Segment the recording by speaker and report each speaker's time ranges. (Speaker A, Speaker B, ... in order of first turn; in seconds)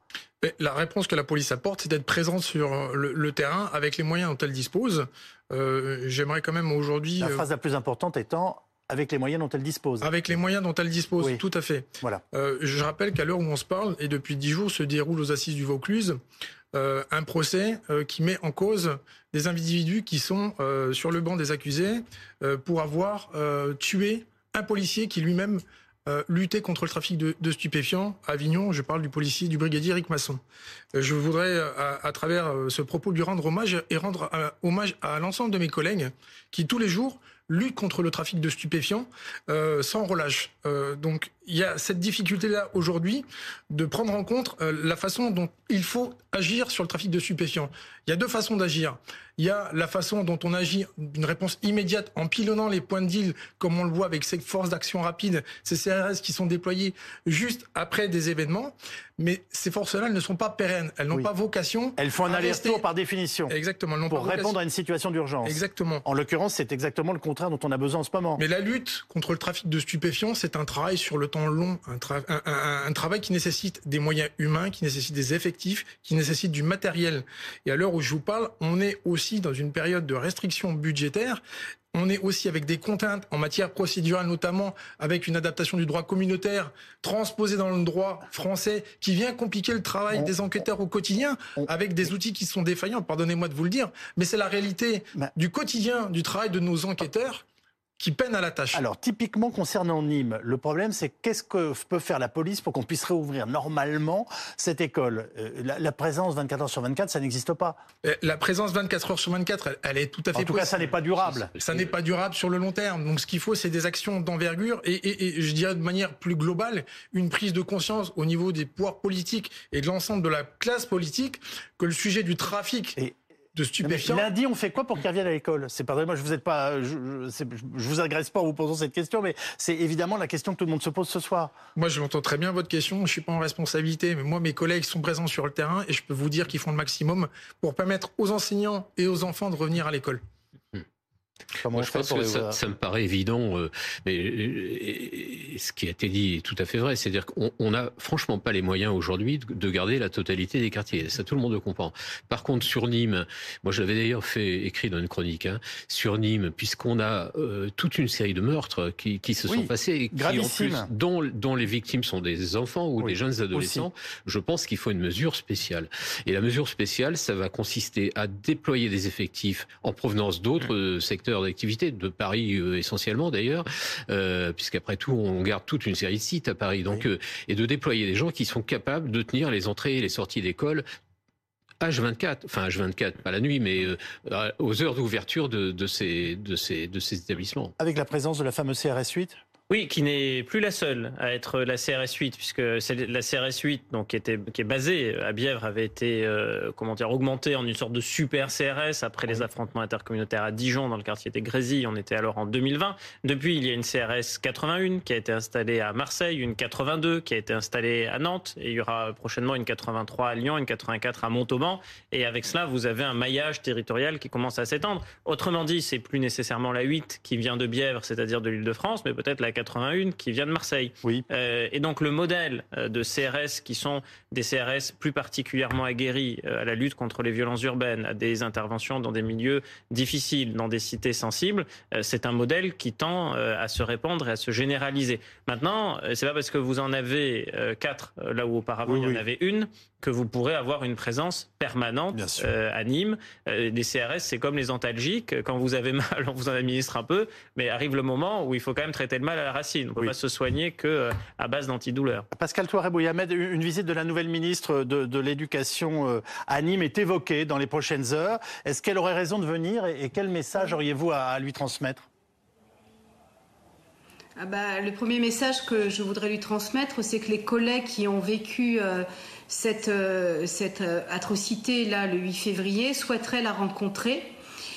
Speaker A: 0.4-7.5, 10.0-16.2, 16.7-30.4, 30.9-62.8, 63.5-64.5, 65.5-66.0, 68.4-81.4, 81.9-97.4, 98.0-98.8, 108.0-110.9, 111.6-123.0, 123.5-124.3, 131.8-140.2
Speaker B: 7.2-10.1, 62.0-63.5, 64.1-68.4, 98.7-107.8, 110.3-111.5, 123.8-131.6, 141.6-142.6, 159.5-160.9, 163.0-163.9, 187.8-189.4, 238.9-239.2, 242.1-242.5, 252.3-262.1
Speaker C: 141.7-180.8, 181.8-187.7
Speaker D: 189.7-252.3
Speaker E: 264.4-274.3